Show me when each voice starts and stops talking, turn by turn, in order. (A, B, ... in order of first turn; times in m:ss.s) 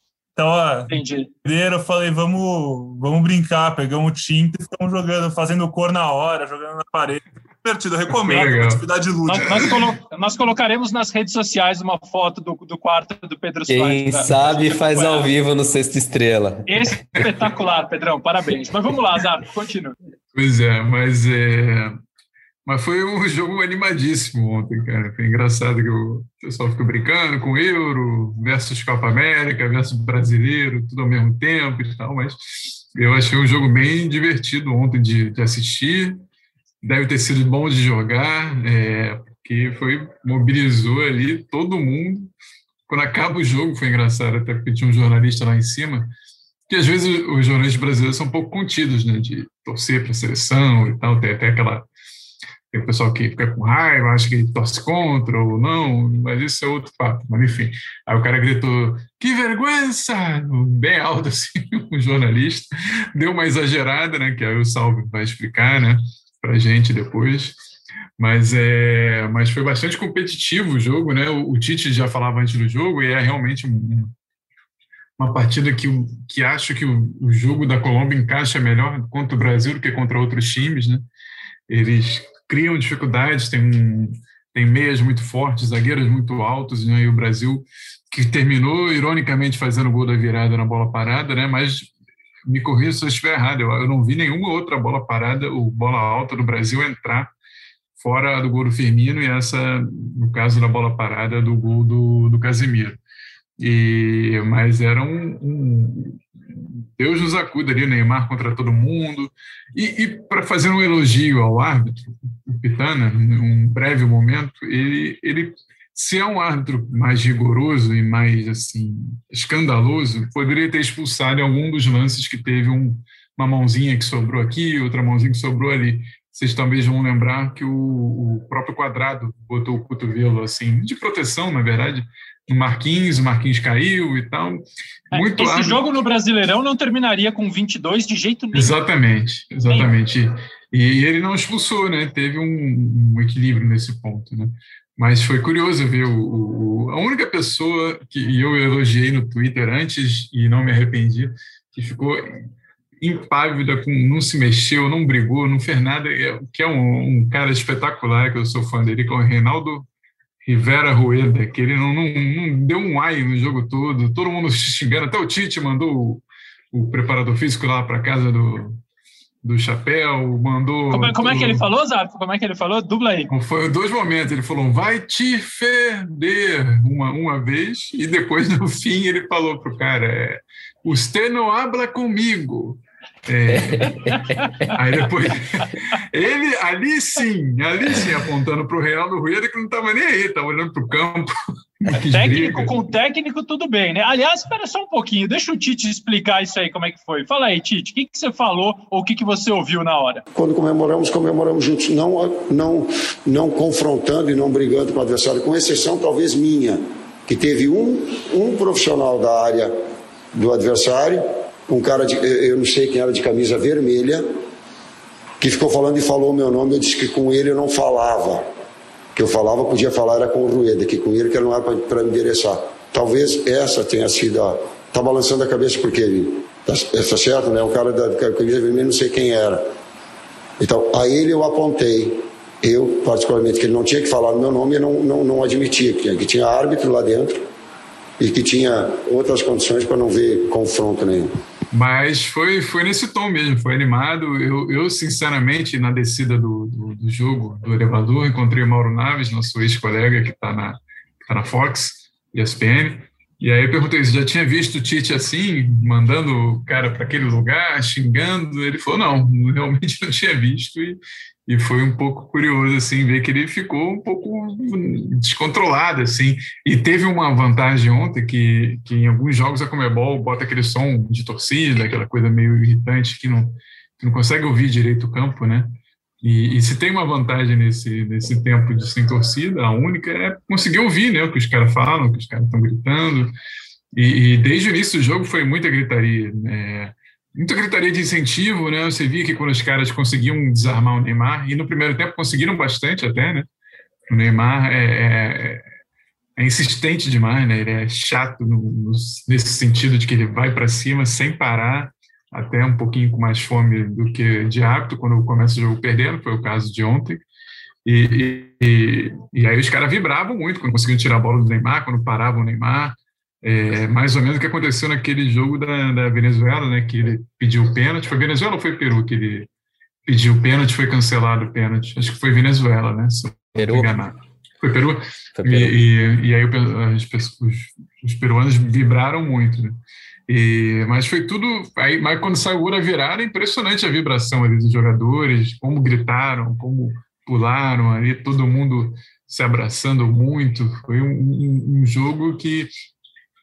0:00.4-0:09.8 A
0:00.9-0:01.3 B
0:08.2-0:08.8 C
0:09.3-0:15.3 B
0:13.7-0:16.7 D
0:16.7-0:20.0 B
0:20.3-0:22.0 C
0:22.6-0:36.2 C
0:36.8-0:42.3 C
0:42.9-0:46.1 C
0:46.7-0:51.9 C
0:52.7-1:07.6 C
1:08.2-1:14.1 C
1:15.2-1:21.0 C
1:21.7-1:31.9 C
1:32.4-1:37.3 C
1:38.0-1:43.0 C
1:43.6-2:14.6 C
2:15.1-2:15.8 C
2:15.1-2:18.7 B
2:18.5-2:32.5 C
2:33.0-2:39.9 C
2:40.4-2:48.8 C
2:49.4-2:51.6 C
2:50.9-2:53.3 B
2:53.3-3:12.9 C
3:03.6-3:04.2 D
3:04.4-3:04.7 B
3:12.0-3:20.2 B
3:20.3-3:29.7 E
3:30.3-3:34.2 E
3:35.4-3:38.4 E
3:39.1-3:49.6 E
3:50.6-3:57.4 E
3:58.2-4:01.3 E
4:01.7-4:43.3 C
4:43.9-4:53.5 C
4:54.1-4:55.6 C
4:56.4-5:07.2 C
5:07.8-5:19.5 C
5:20.0-5:42.7 C
5:23.6-5:23.9 D
5:25.4-5:25.8 D